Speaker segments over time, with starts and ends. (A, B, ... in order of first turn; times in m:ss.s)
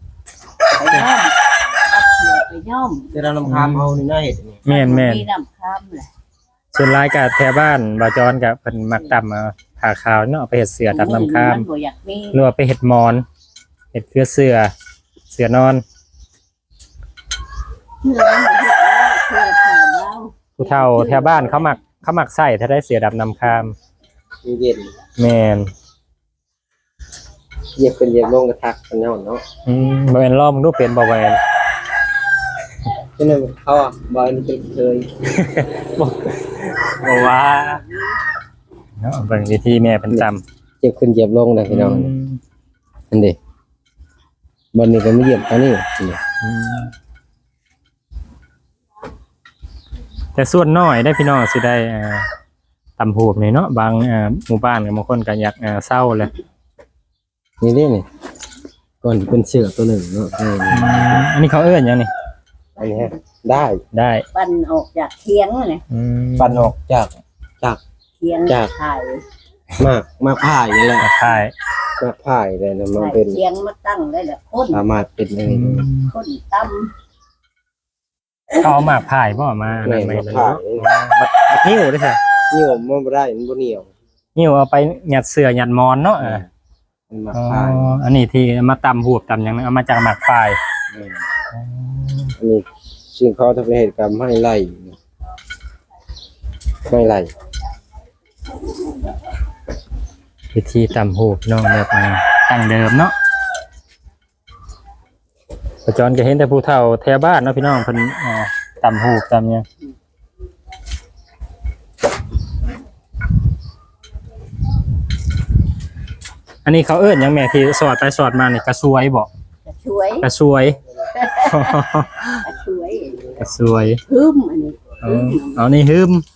0:00.7-0:03.1 A
0:03.1-0:04.6 B
0:03.4-0:03.9 C
0:04.6-0:06.1 A
0:04.7-0:05.2 C
0:06.7-0:11.6 C
0:10.9-0:12.4 A
0:12.3-0:13.2 C
0:13.9-0:14.7 C
0:15.3-0:15.8 C
0:18.0-0:21.7 A
0:20.6-0:23.7 C
0:24.4-0:24.9 B
0:25.2-0:25.7 C
0:27.8-0:29.4 B
0:29.6-0:31.4 C
0:33.2-0:35.1 B
0:35.2-0:37.8 C
0:39.0-0:40.4 C
0:40.8-0:42.1 B
0:41.7-0:42.4 C
0:43.1-0:43.4 B
0:44.7-0:46.2 B
0:46.4-0:46.9 C
0:50.3-0:52.3 C
0:53.0-0:56.3 C
0:57.6-0:58.0 B
0:59.0-1:01.3 B
1:00.7-1:02.1 C
1:02.8-1:03.1 A
1:02.8-1:03.8 B
1:03.9-1:04.2 C
1:04.3-1:05.8 A
1:05.9-1:06.7 C
1:06.4-1:07.8 B
1:08.2-1:09.2 A
1:09.8-1:11.1 B
1:11.0-1:11.5 C
1:12.0-1:13.4 B
1:12.9-1:14.8 A
1:14.7-1:15.9 B
1:15.4-1:16.1 C
1:16.1-1:16.9 A
1:18.5-1:22.2 C
1:19.8-1:20.9 B
1:22.5-1:23.9 B
1:24.3-1:26.4 C
1:26.2-1:26.4 B
1:27.1-1:27.9 B
1:27.3-1:30.6 C
1:30.9-1:31.2 B
1:31.5-1:32.3 C
1:32.4-1:35.0 B
1:36.8-1:37.3 B
1:40.5-1:43.1 C
1:45.8-1:49.6 C
1:56.6-1:59.3 C
1:59.6-2:00.3 A
2:00.2-2:00.8 C
2:01.1-2:01.8 A
2:01.4-2:02.4 C
2:02.4-2:03.4 A
2:03.4-2:04.0 C
2:04.1-2:05.7 A
2:05.0-2:06.2 C